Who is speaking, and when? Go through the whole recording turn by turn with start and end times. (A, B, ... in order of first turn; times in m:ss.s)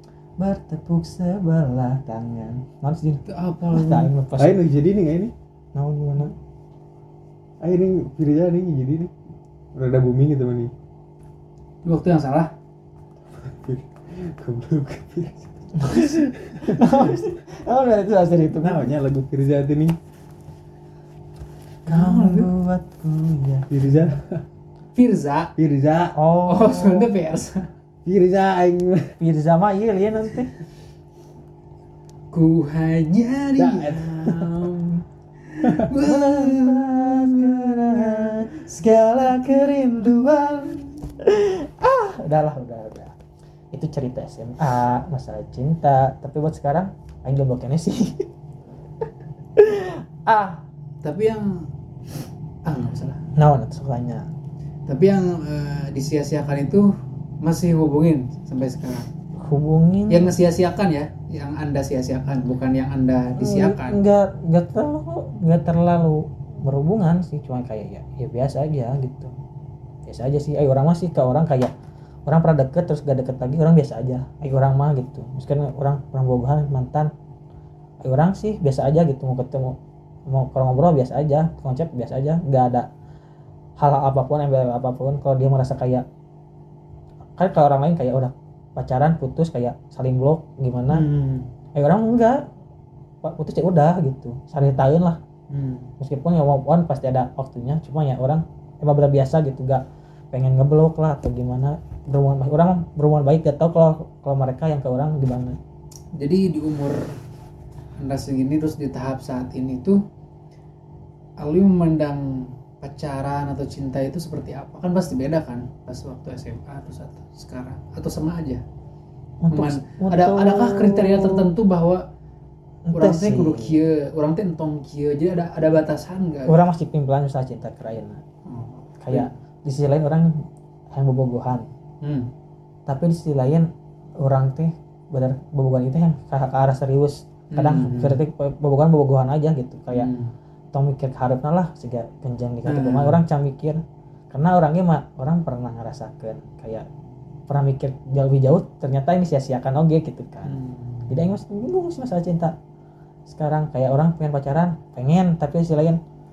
0:00.4-0:04.6 A
0:03.3-0:04.1 B
0:04.4-0:05.3 C
0:05.7-0:06.3 A
0:07.6-0:09.1 C
0:09.7-0:10.7 C
0:11.8-0:12.5 B
0:13.4-0:17.3 C
0:15.8-0:18.9 A
0:18.5-0:20.0 C
0:21.8-0:22.5 B
0:21.8-0:23.7 A
0:23.7-0:24.4 C
0:24.9-0:25.5 B
0:25.6-0:26.2 C
0:26.1-0:27.1 A
0:26.5-0:27.7 B
0:28.0-0:29.1 C
0:29.2-0:30.5 A
0:32.3-0:34.8 B
0:33.6-0:34.8 C
0:35.5-0:38.3 B
0:35.9-0:43.1 A
0:43.7-0:48.3 A
0:49.6-0:50.6 A
0:51.0-0:51.7 B
0:52.6-0:53.2 B
0:53.3-0:54.3 A
0:54.9-0:59.1 B
0:59.4-1:00.4 A
1:00.1-1:04.0 B
1:03.4-1:09.3 A
1:10.0-1:11.7 A
1:12.2-1:17.1 A
1:18.0-1:19.8 A
1:20.3-1:22.9 A
1:23.8-1:26.0 A
1:27.4-1:31.1 A
1:31.0-1:31.4 C
1:31.8-1:32.4 A
1:33.2-1:35.2 A
1:36.0-1:45.6 A
1:46.2-1:47.2 B
1:48.0-1:50.0 B
1:51.4-1:58.6 B
1:59.4-2:01.5 A
1:59.5-2:02.0 B
2:02.8-2:03.8 A
2:02.9-2:06.5 B
2:06.4-2:08.2 A
2:08.4-2:09.3 B
2:09.0-2:11.7 A
2:12.0-2:12.3 B
2:12.8-2:13.7 A
2:14.2-2:20.1 A
2:17.5-2:18.2 B
2:19.9-2:20.3 B
2:20.7-2:26.8 A
2:22.6-2:23.2 B
2:27.5-2:30.6 A
2:30.5-2:31.1 B
2:31.1-2:32.5 A
2:33.3-2:36.0 A